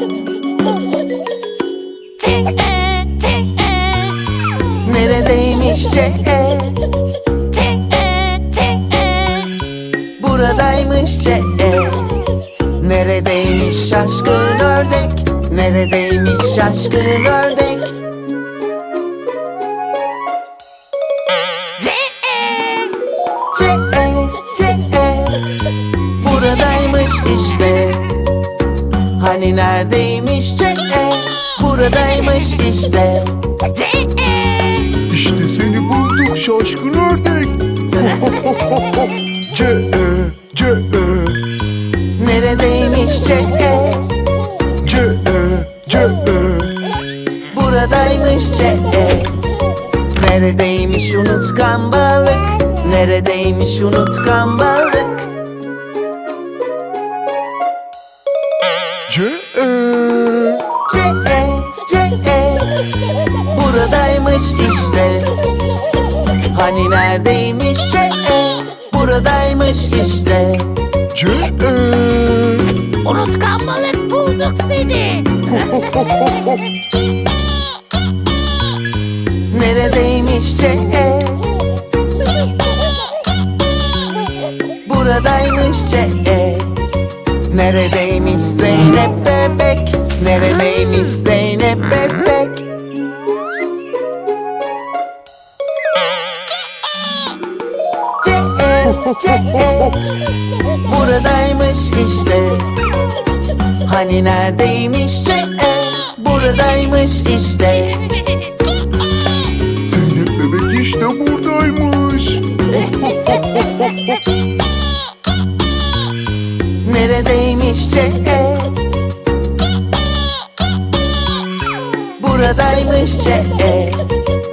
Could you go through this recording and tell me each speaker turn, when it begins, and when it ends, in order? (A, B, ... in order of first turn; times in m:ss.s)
0:02.2-0:04.2 A
0:04.8-0:06.9 B
0:07.5-0:09.5 A
0:10.2-0:18.0 B
0:21.8-0:22.9 A
0:23.5-0:25.6 B
0:26.2-0:28.2 B
0:29.2-0:33.4 B
0:33.8-0:34.9 A
0:35.1-0:38.2 C
0:39.4-0:41.4 C
0:42.2-0:44.1 B
0:44.8-0:46.8 C
0:47.5-0:49.4 B
0:50.1-0:55.3 B
0:59.1-1:00.7 C
1:00.8-1:02.9 B
1:03.4-1:05.4 B
1:06.5-1:10.8 B
1:11.1-1:12.7 C
1:13.0-1:16.2 A
1:19.5-1:21.6 B
1:24.8-1:26.8 B
1:27.5-1:32.7 B
1:38.2-1:40.1 B
1:40.8-1:42.7 B
1:43.8-1:48.2 B
1:49.8-1:53.4 C
1:56.8-1:58.8 B
2:02.2-2:04.2 B